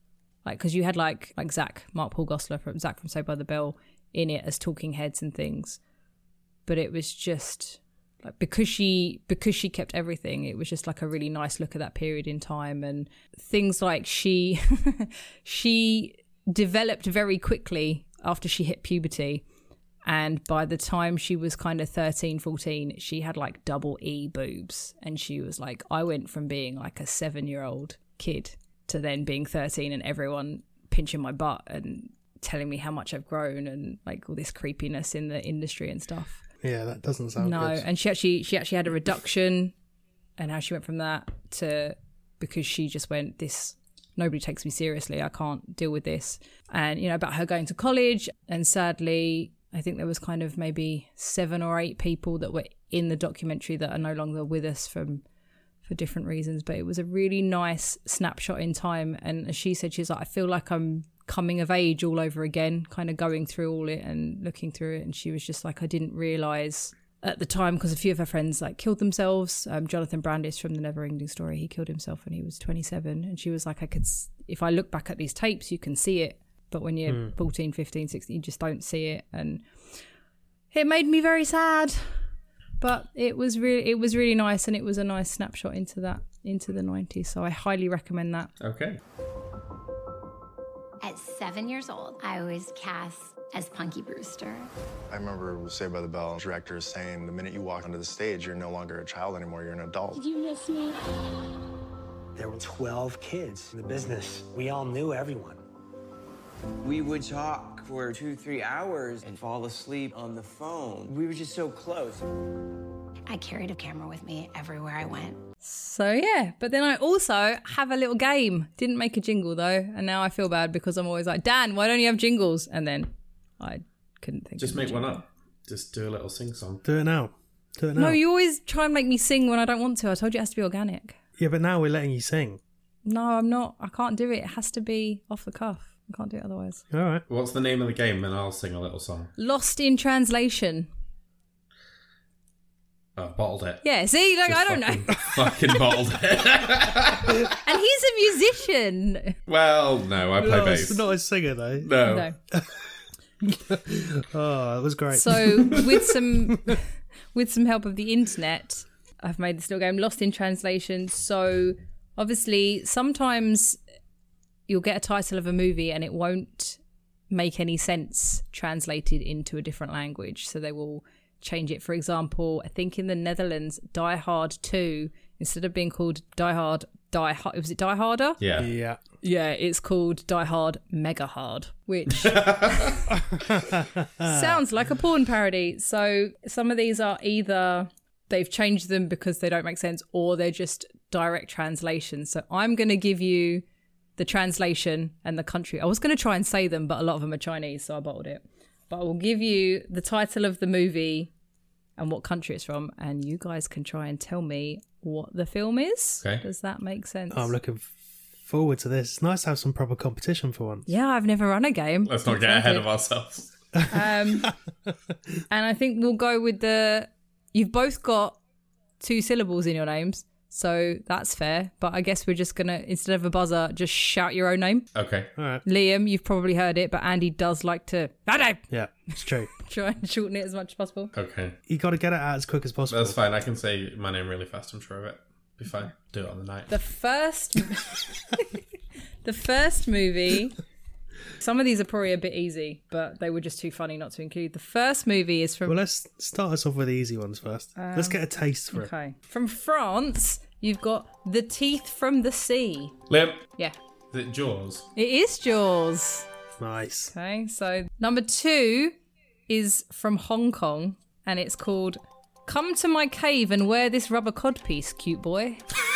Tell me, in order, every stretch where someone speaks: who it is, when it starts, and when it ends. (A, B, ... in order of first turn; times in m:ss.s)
0:00.4-0:05.8 A
0:06.7-0:19.4 A
0:20.0-0:36.4 A
0:36.6-0:37.8 B
0:37.4-0:39.7 A
0:40.4-0:55.2 A
0:55.9-1:19.7 A
1:17.1-1:17.3 B
1:20.7-1:22.2 A
1:22.8-1:28.5 A
1:28.6-1:29.0 C
1:31.0-1:34.7 D
1:35.1-1:40.3 E
1:42.4-1:45.6 F
1:46.8-1:52.3 G
1:53.3-1:55.4 D
1:55.6-2:05.2 A
2:04.6-2:06.8 C
2:06.8-2:08.2 B
2:08.0-2:11.2 A
2:11.4-2:12.6 B
2:13.0-2:16.8 A
2:16.9-2:17.2 B
2:17.3-2:19.3 C
2:19.4-2:20.9 A
2:23.2-2:23.8 C
2:23.8-2:25.2 A
2:24.5-2:27.5 C
2:27.6-2:29.4 A
2:29.5-2:31.0 C
2:30.4-2:31.9 B
2:31.8-2:32.3 C
2:32.0-2:32.4 A
2:32.5-2:32.9 B
2:33.4-2:36.8 B
2:35.1-2:43.8 A
2:44.7-2:46.8 A
2:47.3-2:58.4 A
2:58.4-2:58.7 C
2:58.6-2:59.0 B
2:59.2-3:03.0 A
3:02.2-3:03.0 C
3:03.1-3:04.6 B
3:04.2-3:13.6 A
3:14.2-3:21.3 A
3:22.0-3:27.5 A
3:27.3-3:30.9 B
3:30.9-3:32.9 A
3:32.0-3:33.5 C
3:33.9-3:34.5 A
3:35.5-3:38.4 A
3:39.0-3:44.9 A
3:45.0-3:45.3 C
3:45.4-3:45.6 B
3:45.6-3:48.6 A
3:48.7-3:49.5 B
3:49.2-3:51.1 A
3:51.1-3:51.6 C
3:51.7-3:53.2 B
3:52.9-3:56.7 C
3:56.7-3:58.6 A
3:59.2-4:00.6 A
4:01.4-4:05.8 A
4:05.7-4:08.9 B
4:07.8-4:13.0 A
4:13.1-4:13.5 C
4:14.1-4:14.9 C
4:15.0-4:16.3 A
4:16.6-4:17.1 B
4:17.1-4:19.0 A
4:19.5-4:25.6 A